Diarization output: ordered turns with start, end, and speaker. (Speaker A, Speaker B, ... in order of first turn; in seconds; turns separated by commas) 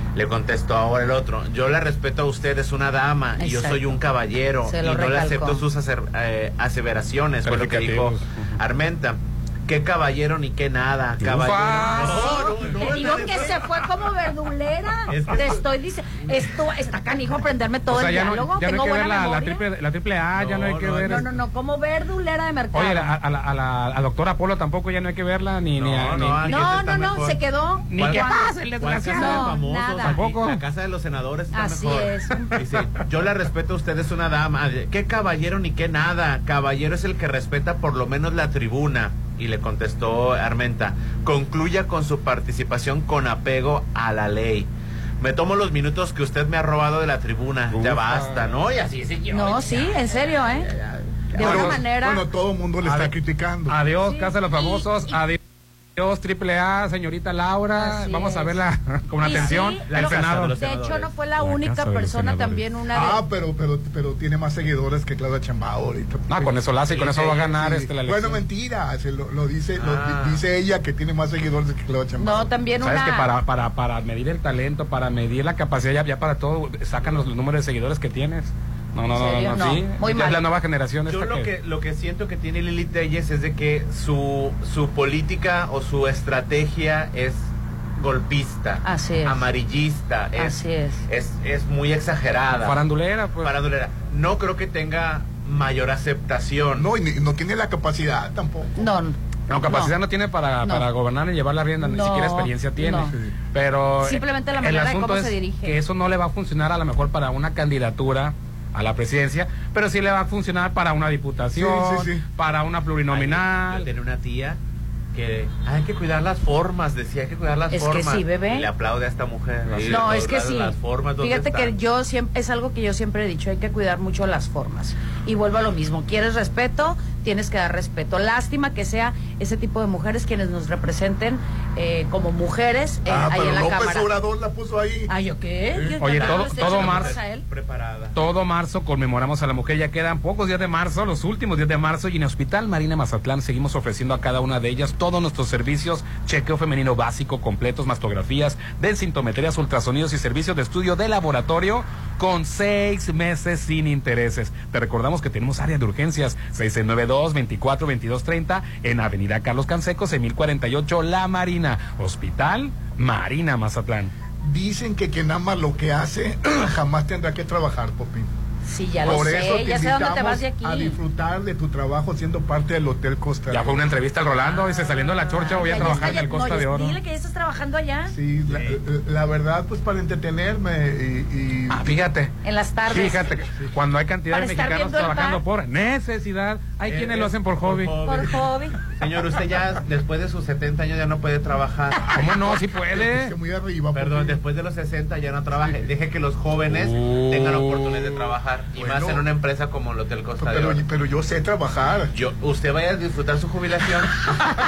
Speaker A: 0.1-13.7, Speaker B: 3.4-3.9, Speaker B: 4.7-5.6, Speaker C: 7.4-8.5, Speaker C: 11.2-12.7, Speaker B: 11.8-19.6, Speaker A: 15.1-15.6, Speaker C: 17.9-21.3, Speaker A: 20.4-21.2, Speaker B: 21.0-23.1, Speaker C: 22.7-26.7, Speaker A: 25.8-27.4, Speaker B: 26.5-28.5, Speaker C: 27.9-30.6, Speaker A: 27.9-44.7, Speaker B: 29.1-30.2, Speaker B: 31.5-32.6, Speaker A: 45.2-51.6, Speaker C: 47.7-48.5, Speaker B: 49.3-50.7, Speaker B: 51.3-52.2, Speaker C: 51.4-51.8, Speaker D: 51.4-53.8, Speaker C: 52.8-53.1, Speaker C: 53.7-55.4, Speaker B: 54.0-55.1, Speaker C: 56.0-60.5, Speaker B: 57.8-58.6, Speaker B: 59.2-63.2, Speaker A: 59.3-61.1, Speaker C: 61.4-62.6, Speaker D: 62.9-66.5, Speaker C: 66.3-68.4, Speaker A: 66.9-67.4, Speaker D: 67.4-72.5, Speaker A: 69.8-70.4, Speaker B: 72.2-73.3, Speaker C: 72.8-81.5, Speaker B: 79.1-80.4, Speaker A: 81.1-92.8, Speaker B: 88.8-89.4, Speaker B: 90.4-91.0, Speaker C: 92.6-93.5, Speaker A: 93.4-96.9, Speaker D: 96.8-98.8, Speaker B: 98.8-99.9, Speaker C: 99.5-113.9, Speaker B: 101.8-103.1, Speaker D: 103.0-103.3, Speaker B: 104.0-105.8, Speaker D: 111.5-112.2, Speaker A: 113.1-114.6, Speaker A: 115.1-121.7, Speaker B: 117.7-118.7, Speaker C: 119.7-120.2, Speaker B: 119.9-134.1, Speaker D: 133.1-135.1, Speaker B: 135.1-137.4, Speaker C: 136.0-137.1, Speaker A: 136.0-138.2, Speaker C: 138.1-164.1, Speaker D: 164.4-168.3, Speaker B: 168.6-171.0, Speaker D: 169.0-173.8, Speaker C: 173.5-177.0, Speaker B: 174.4-178.1, Speaker D: 178.1-181.9, Speaker A: 178.5-178.8, Speaker C: 181.7-182.3, Speaker B: 182.4-183.3, Speaker C: 182.9-187.9, Speaker B: 184.3-185.4, Speaker A: 186.9-188.4, Speaker B: 188.0-188.8, Speaker A: 188.9-192.2, Speaker C: 192.1-193.3, Speaker D: 192.9-194.4, Speaker A: 193.9-200.8, Speaker C: 196.7-198.1, Speaker D: 198.7-199.2, Speaker D: 200.4-202.1, Speaker A: 202.1-204.3